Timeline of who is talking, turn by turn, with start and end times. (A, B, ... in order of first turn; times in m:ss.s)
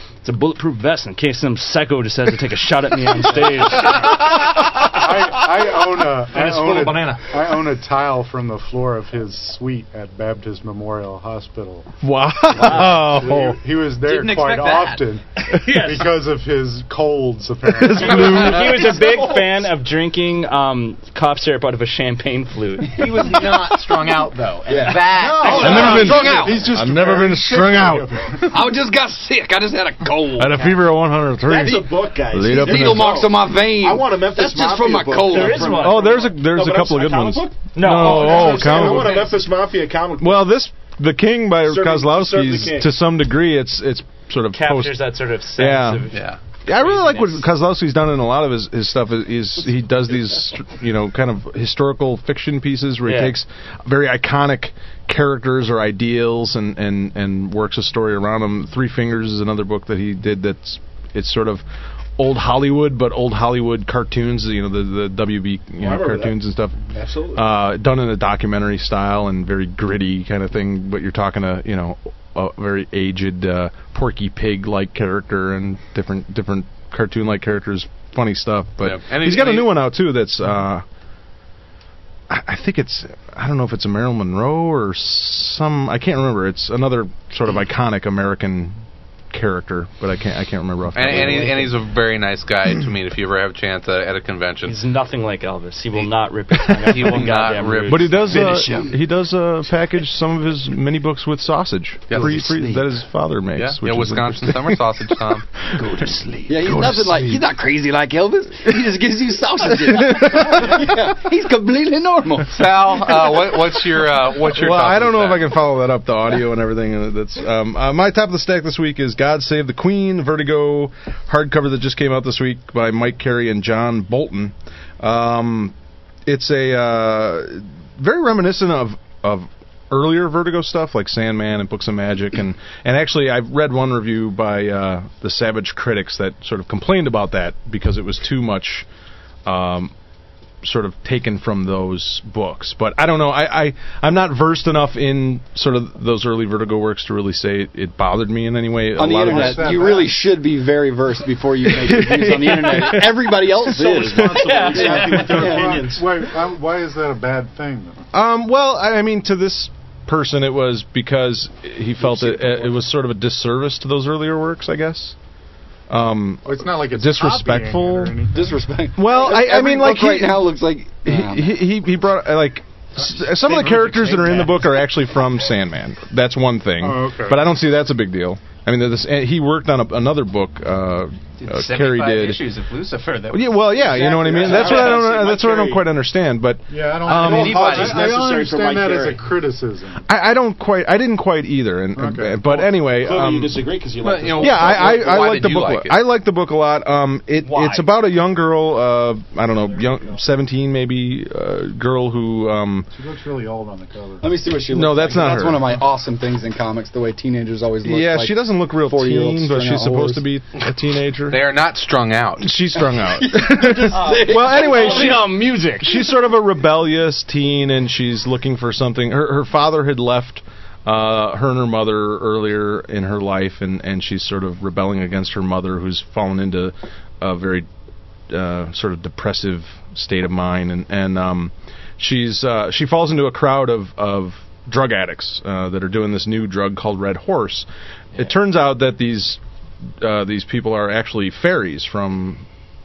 0:00.2-0:04.2 A
0:04.1-0:11.9 B
0:12.0-0:13.6 C
0:12.6-0:18.6 B
0:14.0-0:15.0 D
0:15.4-0:16.1 A
0:17.7-0:19.0 C
0:18.1-0:23.3 A
0:23.0-0:26.7 D
0:24.7-0:26.6 E
0:24.8-0:28.5 B
0:25.5-0:28.4 C
0:28.5-0:30.8 E
0:30.4-0:33.2 C
0:31.4-0:40.6 F
0:32.5-0:35.8 E
0:35.3-0:36.3 A
0:35.8-0:39.3 C
0:37.7-0:39.0 A
0:40.2-0:46.2 C
0:41.6-0:43.0 F
0:44.5-0:47.5 A
0:46.1-0:46.4 G
0:46.7-1:01.6 C
0:53.1-0:53.4 A
1:02.2-1:06.8 C
1:05.8-1:07.5 F
1:07.3-1:20.8 C
1:18.8-1:19.8 G
1:22.3-1:31.7 C
1:30.9-1:34.8 G
1:34.7-1:38.4 A
1:36.8-1:38.4 G
1:37.9-1:47.4 C
1:38.3-1:39.0 E
1:42.1-1:42.4 G
1:42.2-1:42.9 E
1:43.6-1:45.5 G
1:45.8-1:53.0 E
1:49.9-1:50.8 C
1:52.5-1:55.6 G
1:54.4-2:05.7 C
2:06.3-2:18.9 C
2:19.5-2:19.9 C
2:20.6-2:29.9 C
2:29.0-2:35.8 E
2:29.2-2:30.2 B
2:31.7-2:34.3 C
2:33.7-2:36.1 F
2:33.8-2:38.0 B
2:34.4-2:35.4 A
2:38.1-2:45.2 C
2:45.9-2:48.2 C
2:46.4-2:48.6 B
2:48.3-2:51.6 E
2:48.9-3:02.5 C
2:53.4-2:54.5 F
2:56.8-2:57.5 B
3:01.4-3:05.1 D
3:03.3-3:07.8 C
3:04.0-3:05.9 F
3:06.7-3:10.0 B
3:07.0-3:08.0 D
3:07.2-3:09.3 F
3:10.1-3:13.6 C
3:12.0-3:12.5 B
3:12.4-3:15.2 F
3:14.0-3:16.0 G
3:14.4-3:22.9 C
3:17.5-3:17.8 A
3:22.9-3:24.3 B
3:24.2-3:30.2 E
3:24.7-3:25.7 C
3:27.8-3:31.4 C
3:31.3-3:32.5 G
3:32.4-3:47.7 C
3:33.0-3:35.3 E
3:34.0-3:35.9 A
3:48.3-3:59.4 C
4:00.0-4:02.4 C